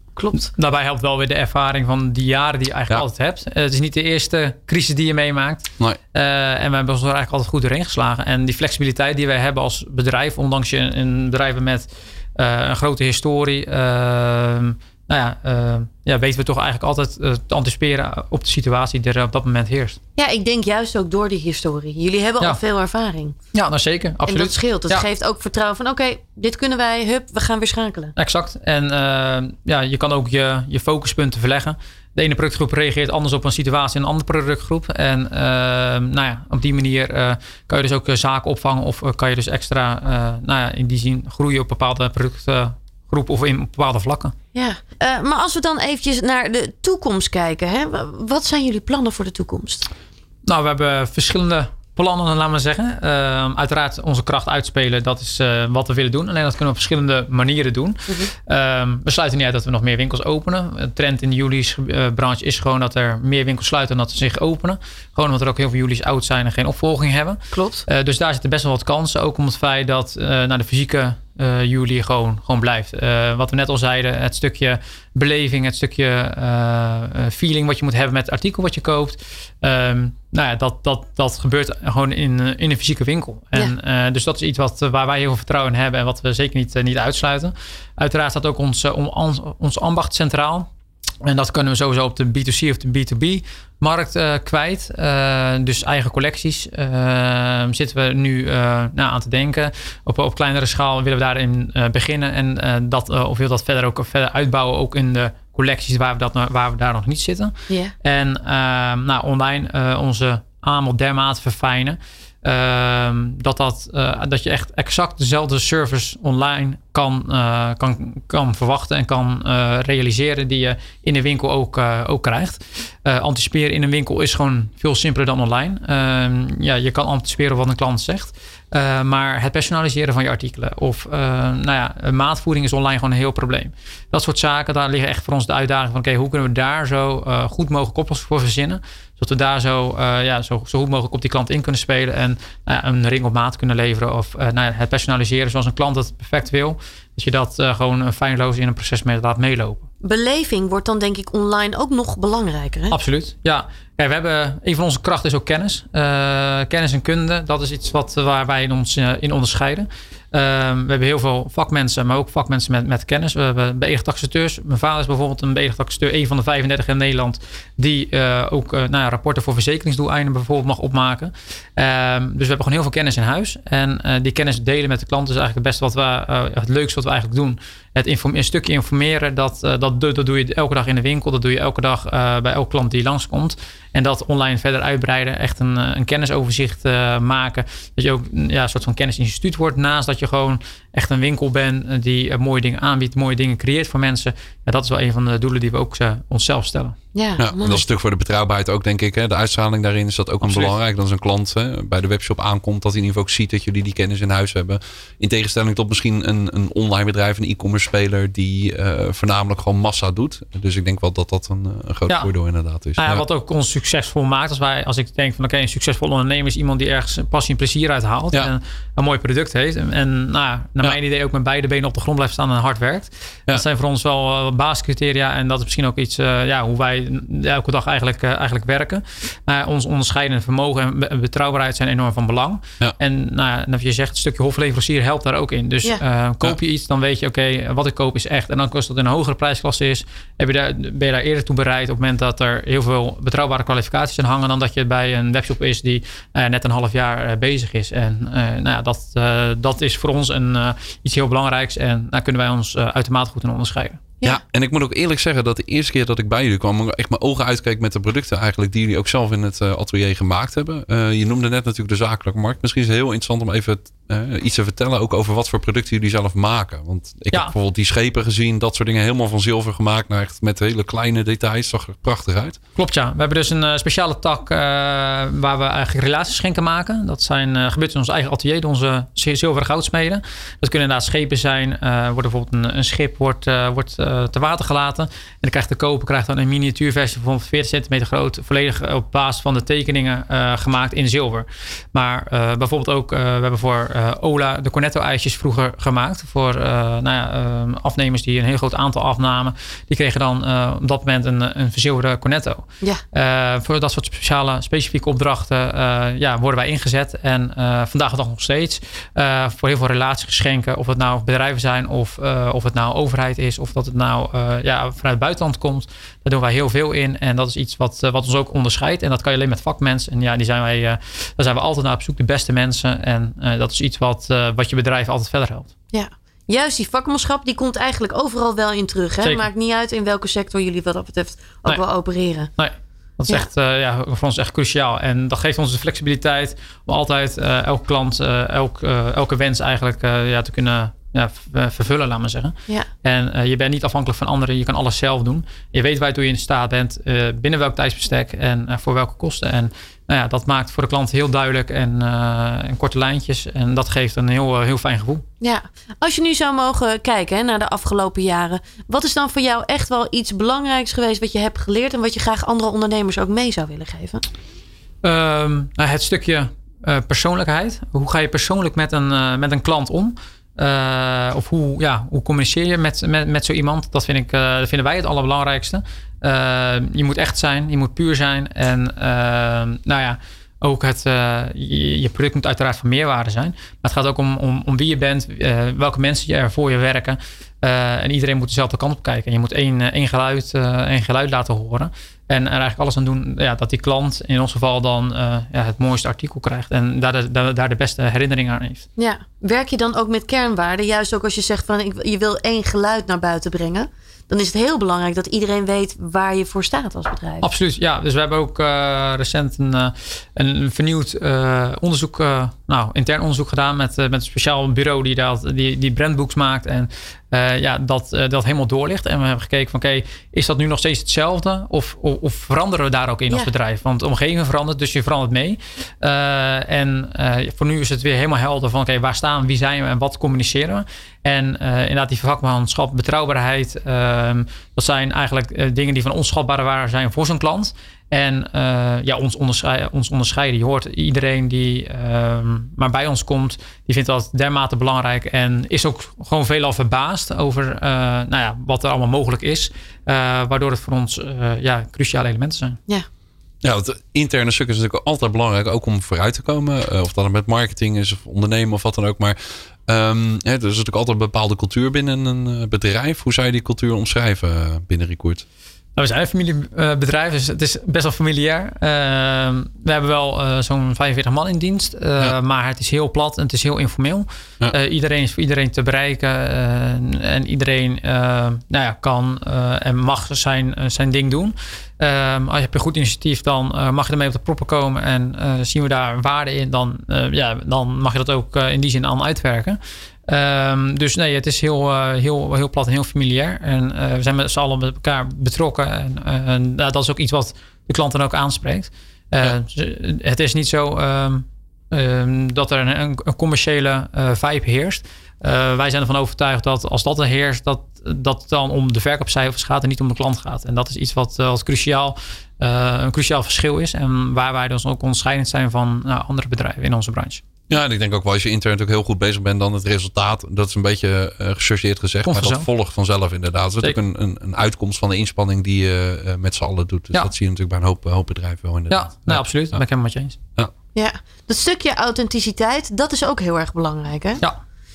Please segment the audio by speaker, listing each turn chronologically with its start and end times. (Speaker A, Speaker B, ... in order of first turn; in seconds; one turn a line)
Speaker A: 0.1-0.5
Speaker B: 0.3-20.0
Speaker A: 20.1-23.4
Speaker B: 23.5-25.1
Speaker A: 24.2-28.1
Speaker B: 28.1-44.3
Speaker A: 44.5-49.9
Speaker B: 50.5-90.7
Speaker A: 67.5-67.8
Speaker B: 91.2-149.9
Speaker A: 107.7-107.9
Speaker A: 150.0-152.9
Speaker B: 152.9-196.9
Speaker A: 197.1-197.8
Speaker C: 197.4-213.2
Speaker B: 200.4-200.8
Speaker B: 213.0-254.0
Speaker C: 254.2-272.6
Speaker B: 272.8-325.7
Speaker A: 325.9-332.5
Speaker B: 332.6-355.2
Speaker A: 355.4-364.2
Speaker B: 365.0-398.9
Speaker A: 399.0-407.4
Speaker B: 407.4-452.8
Speaker C: 453.6-465.4
Speaker B: 465.9-517.4
Speaker C: 517.7-529.8
Speaker B: 522.2-522.6
Speaker B: 528.9-530.4
Speaker A: 530.9-534.4